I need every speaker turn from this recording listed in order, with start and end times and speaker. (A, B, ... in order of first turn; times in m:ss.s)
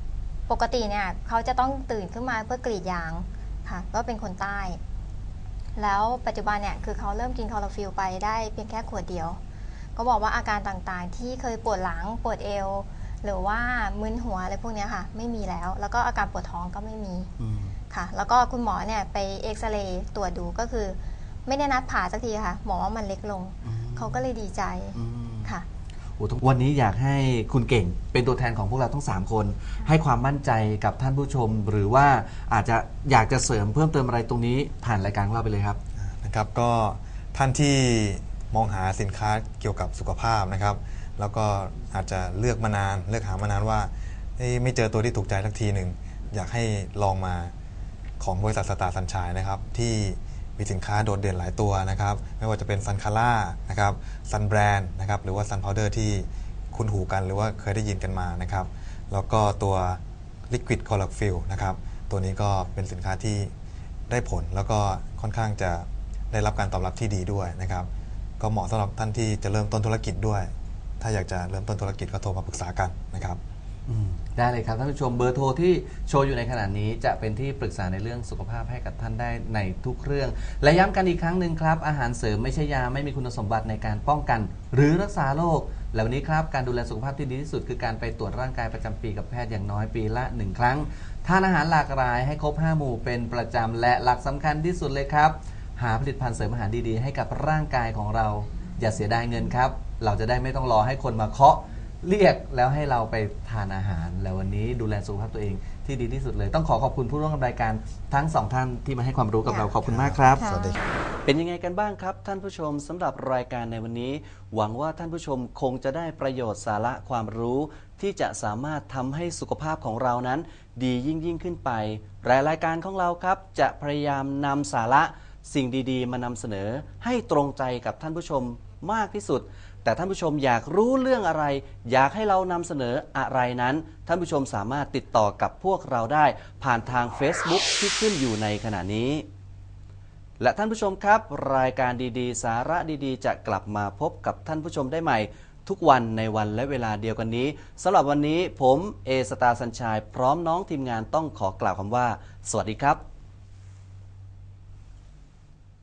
0:00.5-0:04.8 A
0:05.8-0:09.4 A
0:10.0-0:17.3 A
0:17.4-0:17.8 B
0:17.9-0:25.6 A
0:23.6-0:24.2 B
0:24.9-0:25.5 B
0:26.2-0:35.8 B
0:36.0-0:47.5 C
0:48.2-1:03.5 C
1:04.1-1:07.9 C
1:08.4-1:13.4 C
1:13.9-1:50.4 B
1:49.8-1:50.8 C
1:50.4-1:50.8 A
1:51.2-2:19.3 B
2:20.4-2:33.0 B